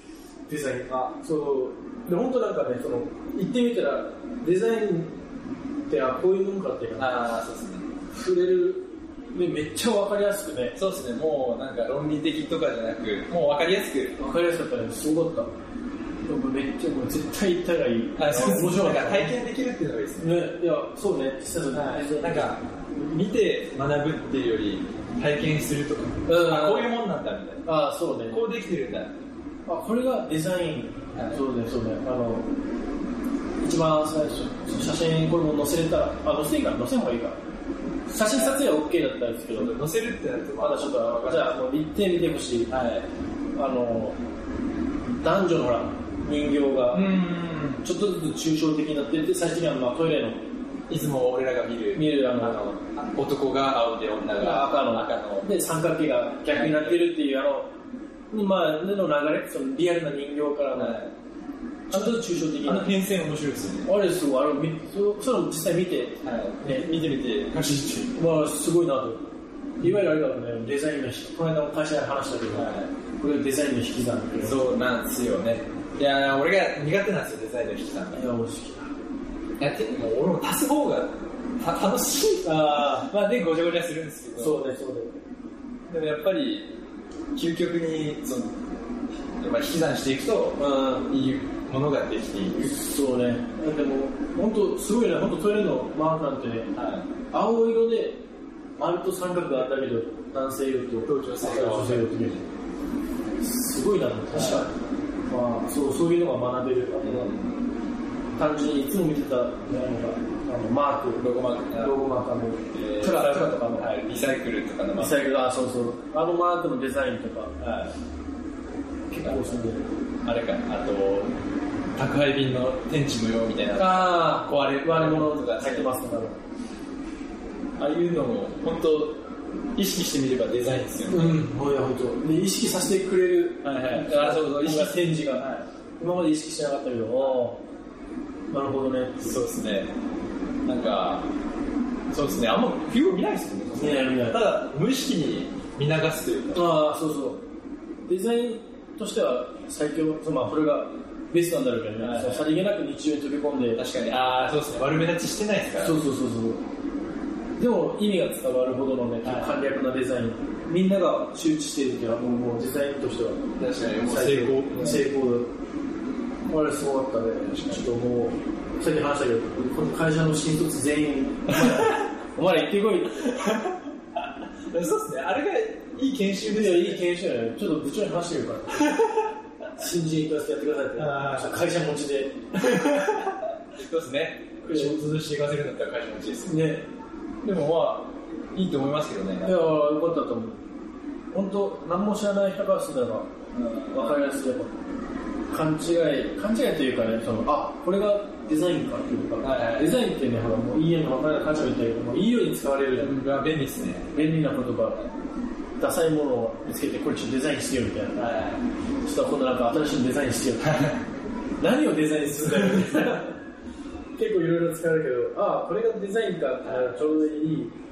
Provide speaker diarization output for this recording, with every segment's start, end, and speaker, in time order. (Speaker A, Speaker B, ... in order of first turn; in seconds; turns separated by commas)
Speaker A: 0.5-5.1, Speaker A: 5.9-7.2, Speaker B: 7.0-7.9, Speaker A: 8.1-10.8, Speaker B: 10.8-14.2, Speaker A: 14.2-15.5, Speaker A: 16.3-19.4, Speaker B: 18.2-20.4, Speaker A: 20.2-22.6, Speaker B: 21.7-27.6, Speaker A: 26.3-27.0, Speaker A: 27.6-28.4, Speaker B: 28.3-29.1, Speaker A: 29.7-32.5, Speaker B: 31.1-31.4, Speaker A: 33.6-37.4, Speaker A: 38.1-39.8, Speaker B: 38.2-38.7, Speaker B: 39.5-41.7, Speaker A: 40.6-42.7, Speaker B: 42.7-43.1, Speaker A: 43.6-44.2, Speaker A: 45.2-47.1, Speaker B: 46.9-47.9, Speaker A: 47.8-50.4, Speaker B: 50.9-55.5, Speaker A: 52.0-52.6, Speaker A: 54.4-57.7, Speaker B: 56.5-57.1, Speaker A: 58.3-61.0, Speaker B: 60.8-61.1, Speaker A: 61.9-63.0, Speaker B: 61.9-63.9, Speaker A: 63.9-66.9, Speaker B: 66.2-68.2, Speaker A: 68.2-69.2, Speaker A: 69.8-74.6, Speaker B: 72.5-72.9, Speaker B: 74.4-78.2, Speaker A: 78.1-78.9, Speaker B: 79.6-84.7, Speaker A: 82.4-83.1, Speaker A: 84.3-85.2, Speaker B: 85.9-86.7, Speaker B: 87.3-88.6, Speaker B: 89.4-92.8, Speaker A: 90.6-91.1, Speaker A: 92.6-96.7, Speaker B: 96.8-97.1, Speaker A: 97.3-98.2, Speaker A: 98.8-102.4, Speaker B: 101.0-102.4, Speaker A: 103.4-104.8, Speaker B: 104.3-104.7, Speaker A: 105.3-107.4, Speaker B: 107.0-107.6, Speaker A: 108.4-113.9, Speaker B: 111.2-112.0, Speaker B: 112.7-115.2, Speaker A: 115.0-117.5, Speaker B: 117.6-118.0, Speaker B: 119.1-119.6, Speaker A: 119.2-119.9, Speaker B: 120.2-121.3, Speaker B: 122.0-125.9, Speaker A: 123.8-126.4, Speaker B: 127.8-129.2, Speaker B: 129.8-131.4, Speaker A: 131.1-135.5, Speaker B: 133.6-135.7, Speaker A: 136.0-137.6, Speaker B: 137.2-137.5, Speaker A: 138.5-139.4, Speaker B: 139.2-139.9, Speaker B: 140.7-141.3, Speaker B: 142.1-146.7, Speaker A: 143.7-144.4, Speaker A: 146.5-147.4, Speaker A: 148.1-153.8, Speaker B: 152.0-152.5, Speaker B: 153.8-156.0, Speaker A: 155.8-156.6, Speaker A: 157.6-163.4, Speaker B: 159.2-159.6, Speaker B: 163.6-165.1, Speaker A: 164.0-165.5, Speaker A: 166.5-173.3, Speaker B: 167.5-167.9, Speaker B: 171.5-172.0, Speaker B: 173.2-173.8, Speaker B: 174.7-177.1, Speaker A: 176.5-179.0, Speaker B: 178.7-179.3, Speaker A: 179.7-182.4, Speaker B: 181.0-181.7, Speaker B: 182.6-186.7, Speaker A: 184.7-185.0, Speaker A: 186.5-186.8, Speaker B: 187.4-189.6, Speaker A: 189.4-190.6, Speaker A: 191.3-193.3, Speaker B: 193.5-194.2, Speaker A: 193.9-194.7, Speaker A: 195.5-203.1, Speaker B: 199.4-200.0, Speaker B: 202.9-204.1, Speaker A: 204.1-205.1, Speaker A: 205.8-208.3, Speaker B: 208.2-208.7, Speaker A: 209.0-210.9, Speaker B: 210.7-210.9, Speaker A: 211.6-213.3, Speaker B: 212.5-213.2, Speaker A: 214.2-217.7, Speaker B: 216.6-217.3